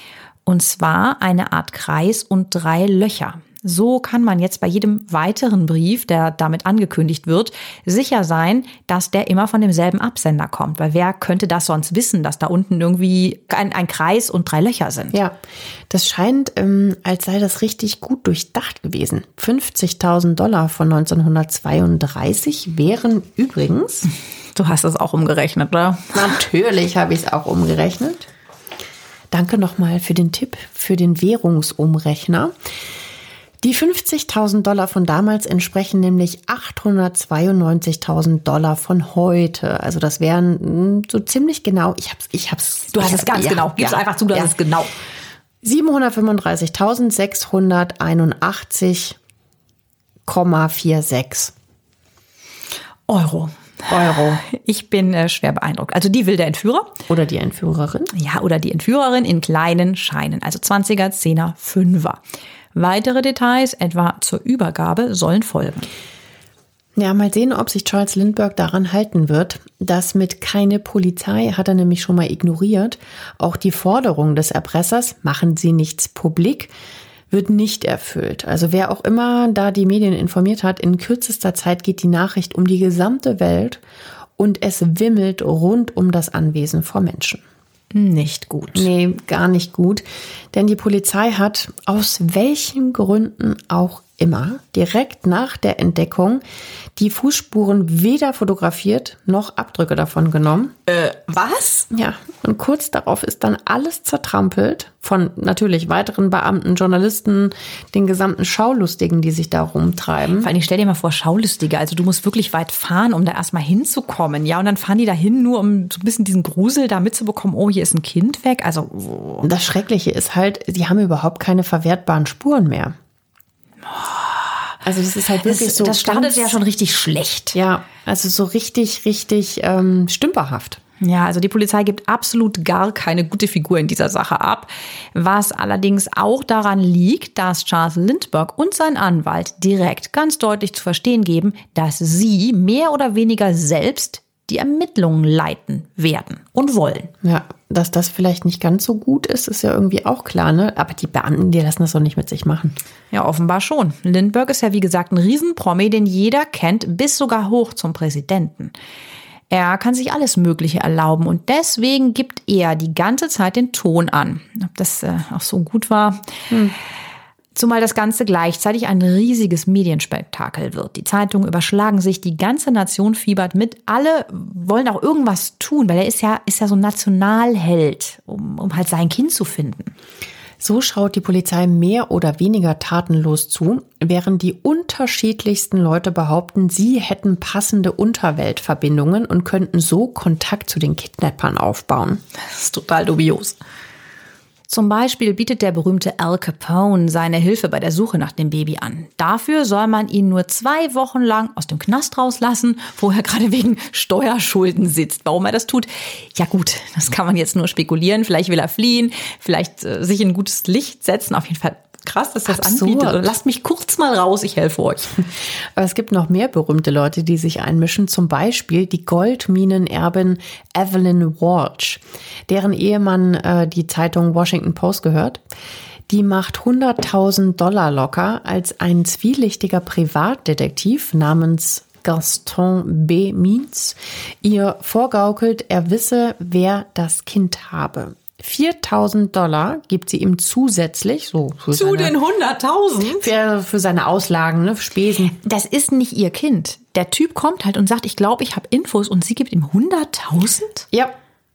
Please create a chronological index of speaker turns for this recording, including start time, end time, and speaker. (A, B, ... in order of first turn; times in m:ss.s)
0:00.4-0:15.1 A
0:15.9-0:24.1 B
0:24.5-0:26.3 A
0:26.1-0:28.2 B
0:29.3-0:32.5 B
0:33.6-0:44.5 B
0:42.9-0:44.9 A
0:45.6-0:49.2 B
0:50.3-0:51.5 B
0:53.1-0:57.0 A
0:53.9-0:54.4 B
0:57.1-0:58.1 B
0:58.1-1:02.2 A
1:02.7-1:05.9 A
1:07.0-1:16.7 B
1:17.3-1:23.8 B
1:24.4-1:27.4 B
1:27.9-1:28.9 A
1:28.7-1:36.4 B
1:37.0-1:40.8 B
1:40.9-1:41.9 A
1:41.9-1:50.5 B
1:50.4-1:59.5 A
1:59.4-2:02.9 B
2:03.9-2:04.8 A
2:04.8-2:06.5 B
2:05.4-2:07.6 A
2:07.5-2:10.8 B
2:11.0-2:27.1 A
2:27.2-2:32.8 B
2:33.1-2:38.7 A
2:39.5-2:46.2 A
2:46.5-2:46.8 B
2:47.5-2:59.9 A
3:00.6-3:12.2 B
3:12.4-3:13.6 A
3:14.7-3:35.2 A
3:32.5-3:33.3 B
3:35.8-3:45.4 B
3:46.1-4:02.1 B
4:01.7-4:03.3 A
4:03.2-4:05.3 B
4:05.3-4:10.9 A